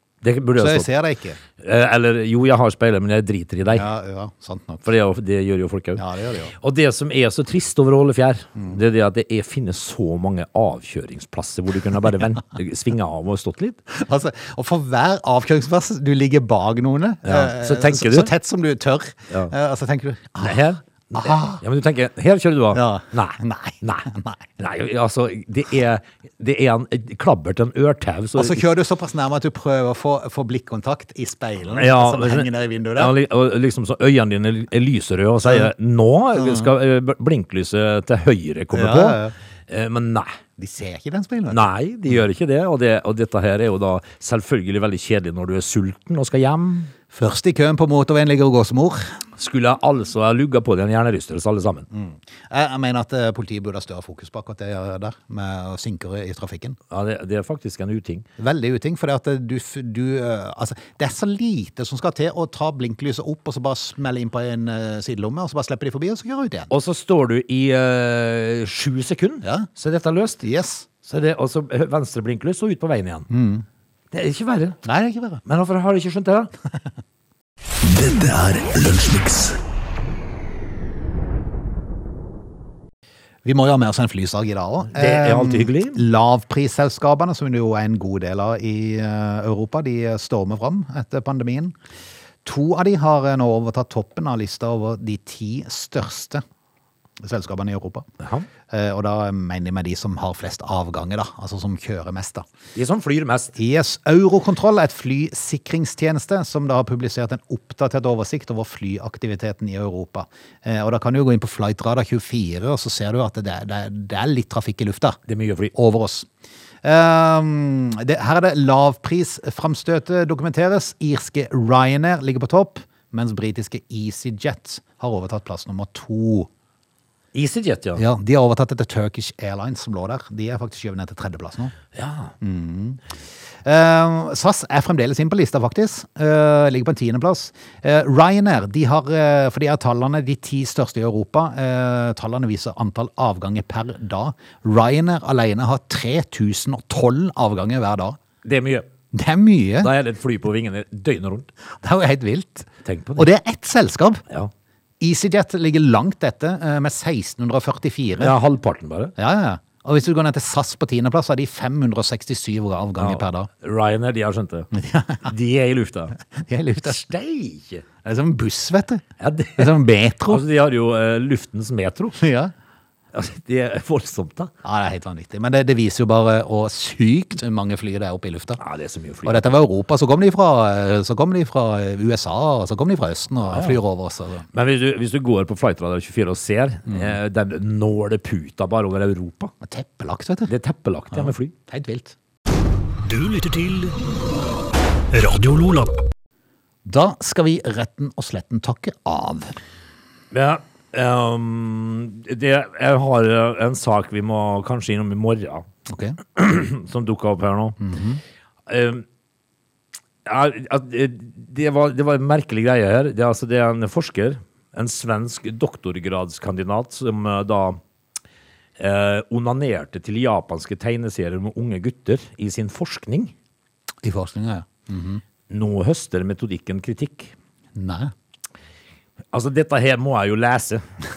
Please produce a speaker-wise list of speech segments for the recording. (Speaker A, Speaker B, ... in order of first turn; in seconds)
Speaker A: 0.2-0.9, 1.6-3.9, 4.8-6.0, 6.5-13.8, 17.2-18.3, 20.4-24.1, 24.6-28.6, 31.7-40.3, 41.5-46.9, 49.4-51.9, 56.9-58.2, 66.7-70.4, 71.0-73.3, 74.1-74.8, 75.4-76.5, 84.9-86.0, 98.2-98.5, 102.7-103.5, 115.3-115.7, 127.3-128.0, 131.9-132.3, 148.4-148.9, 149.8-151.5, 152.8-153.3, 158.2-159.1, 163.0-164.7, 165.2-166.1, 166.8-167.8, 169.2-169.7, 170.3-172.2, 173.1-174.5, 178.6-179.5, 183.5-183.8, 184.5-189.5, 190.5-191.5, 200.3-205.7, 206.3-207.8, 208.7-209.0, 210.2-217.8, 218.8-223.3, 225.5-227.3, 229.3-230.8
Speaker B: 0.6-1.4, 3.7-4.8, 6.0-6.5, 13.9-21.6, 22.7-24.5, 28.3-33.1, 35.4-35.7, 36.4-36.7, 38.7-39.3, 40.6-41.6, 47.1-49.1, 51.9-56.8, 58.4-66.7, 69.4-69.7, 70.4-70.8, 73.3-73.6, 74.8-75.4, 83.4-91.7, 92.4-96.4, 97.2-98.1, 98.7-102.4, 103.5-115.2, 115.7-116.3, 116.8-126.5, 128.0-131.7, 132.4-133.0, 133.6-148.2, 149.1-149.9, 151.8-154.2, 155.0-158.3, 159.2-163.5, 164.7-165.3, 166.3-167.0, 168.0-169.0, 169.6-170.4, 172.2-172.5, 174.6-178.6, 179.2-184.4, 186.9-187.2, 189.6-190.5, 191.1-192.1, 196.8-199.6, 205.9-206.2, 207.8-208.2, 224.0-225.2, 227.7-228.1
Speaker C: 77.8-79.6, 193.0-194.0, 195.1-195.9